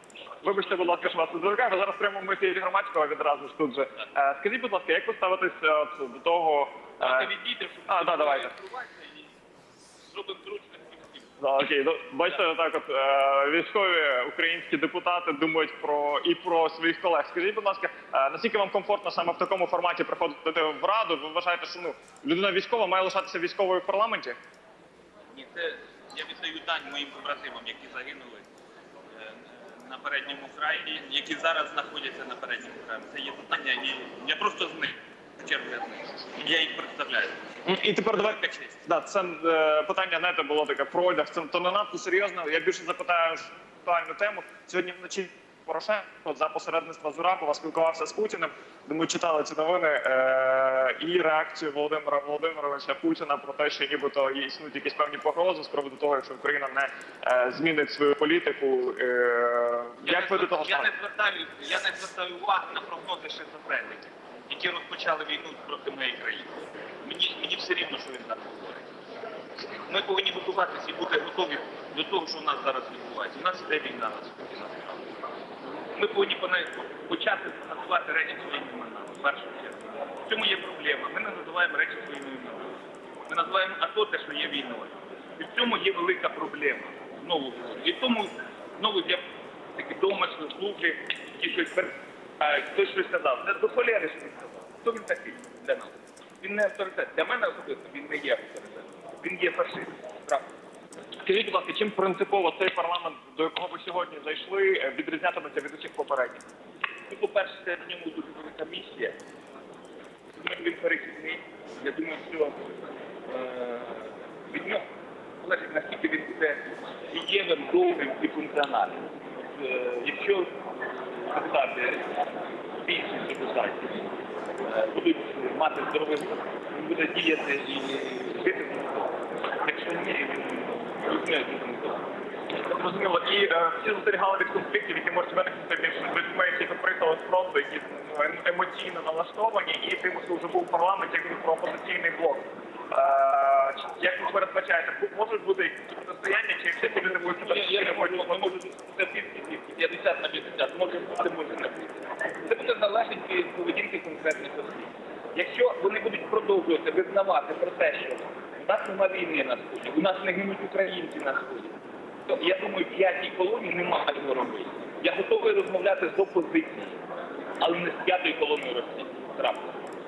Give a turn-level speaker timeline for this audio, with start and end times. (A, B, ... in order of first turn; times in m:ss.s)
0:00.4-0:07.3 A
0:07.0-0:09.3 B
0:07.9-0:08.5 A
0:10.0-0:11.3 B
0:11.4-0:24.4 A
0:25.3-0:28.4 B
0:29.2-0:37.5 B
0:37.6-1:00.9 A
0:38.2-0:38.8 B
1:00.0-1:08.8 B
1:09.7-1:15.1 B
1:15.9-1:22.7 B
1:23.3-1:29.2 B
1:29.7-1:40.5 B
1:41.2-1:46.4 A
1:47.1-1:49.2 B
1:50.4-1:52.7 B
1:53.2-1:54.8 B
1:55.4-2:00.5 B
2:01.2-2:02.1 B
2:02.8-2:04.1 B
2:04.6-2:12.1 B
2:12.7-2:28.5 A
2:27.3-2:41.8 B
2:42.3-2:47.0 B
2:47.6-2:49.8 B